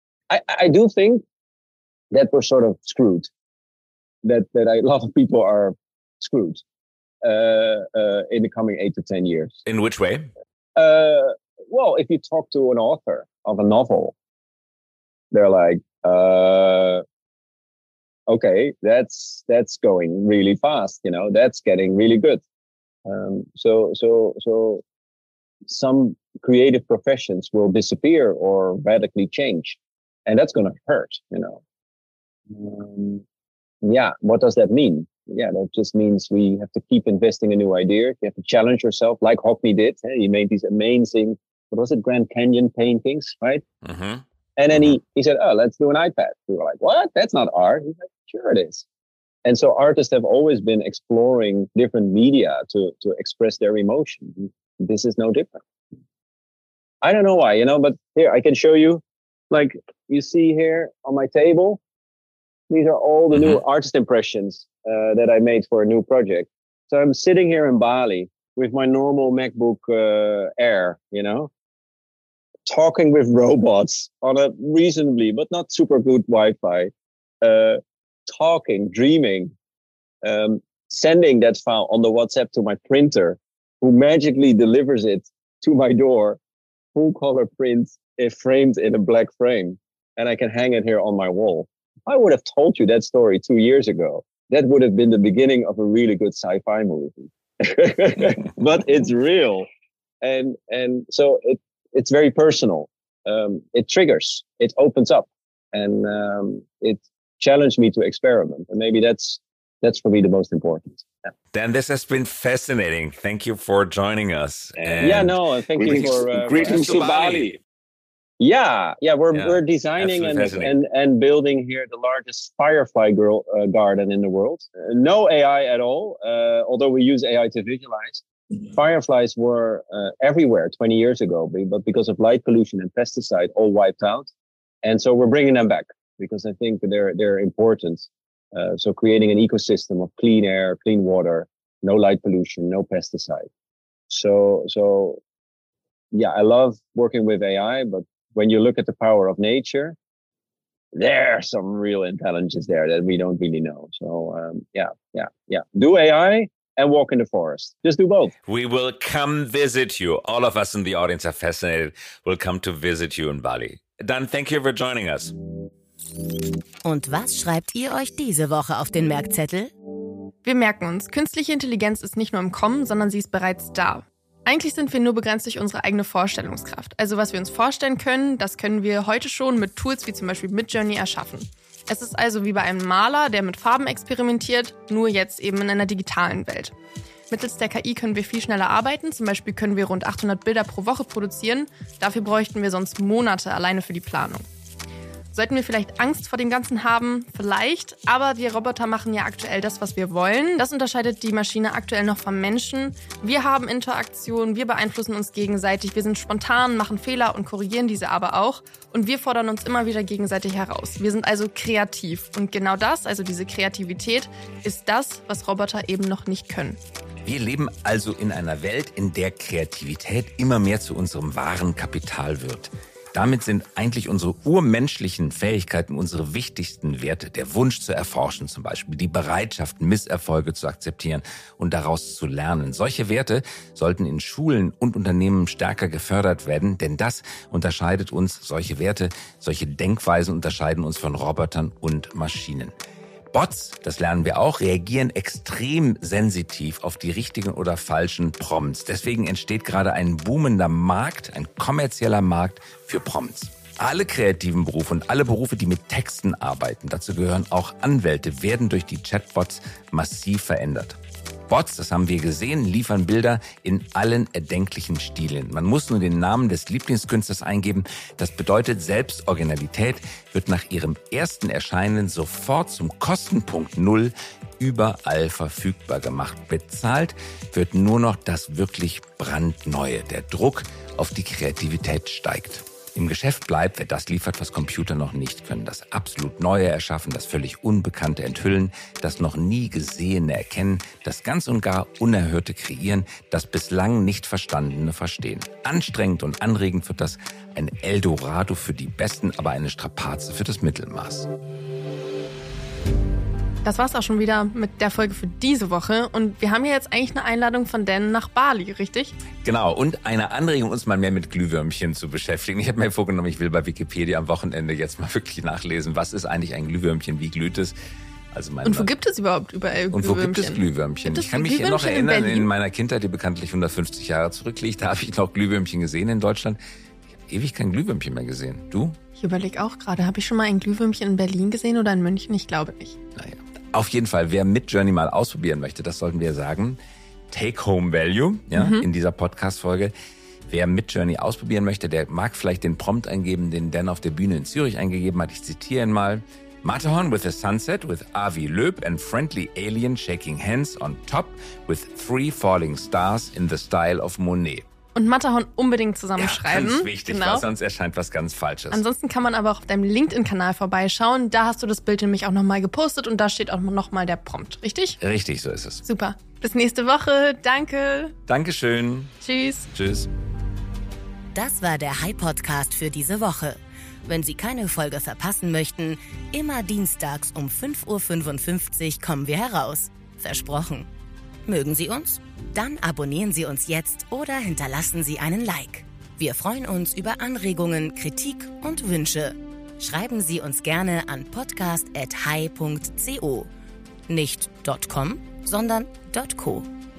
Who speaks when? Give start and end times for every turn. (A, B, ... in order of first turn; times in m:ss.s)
0:00.3-0:01.2 A
0:02.1-0:03.3 A
0:04.2-0:06.6 A
0:07.2-0:09.6 A
0:09.6-0:10.3 B
0:10.8-0:14.1 A
0:15.3-0:17.0 A
0:18.3-0:22.4 A
0:23.1-0:24.8 A
0:25.7-0:31.6 A
0:32.5-0:33.2 A
0:33.8-0:43.6 A
0:43.8-0:45.0 B
0:44.6-0:48.8 A
0:49.4-0:55.6 A
0:57.0-1:01.8 A
1:02.7-1:11.5 A
1:03.4-1:03.6 B
1:12.7-1:19.5 A
1:20.2-1:26.4 A
1:27.0-1:39.7 A
1:40.2-1:51.1 A
1:51.5-1:57.6 B
1:55.0-1:57.0 A
1:58.4-2:14.3 A
1:59.3-2:00.8 B
2:14.8-2:23.5 A
2:24.1-2:25.2 A
2:26.1-2:30.0 A
2:31.0-2:38.3 A
2:38.5-2:45.3 B
2:46.8-2:49.7 C
2:50.4-3:06.7 D
3:07.3-3:14.5 D
3:15.3-3:36.8 D
3:37.3-4:02.7 B
4:03.3-5:01.3 B
5:03.6-5:09.1 D
5:09.4-5:17.7 B
5:18.3-5:18.9 B
5:18.6-5:22.5 D
5:19.9-5:26.6 B
5:27.3-5:29.0 B
5:29.2-5:33.0 D
5:33.2-5:36.8 B
5:37.3-5:39.9 B
5:38.6-5:38.8 D
5:40.5-5:54.6 B
5:55.0-5:57.5 D
5:56.2-5:58.8 B
5:58.7-6:05.0 D
6:05.0-6:05.8 B
6:05.8-6:08.1 D
6:08.3-6:09.1 B
6:09.2-6:09.7 D
6:09.7-6:10.1 B
6:11.4-6:20.9 C
6:21.5-6:33.5 C
6:34.1-6:36.7 C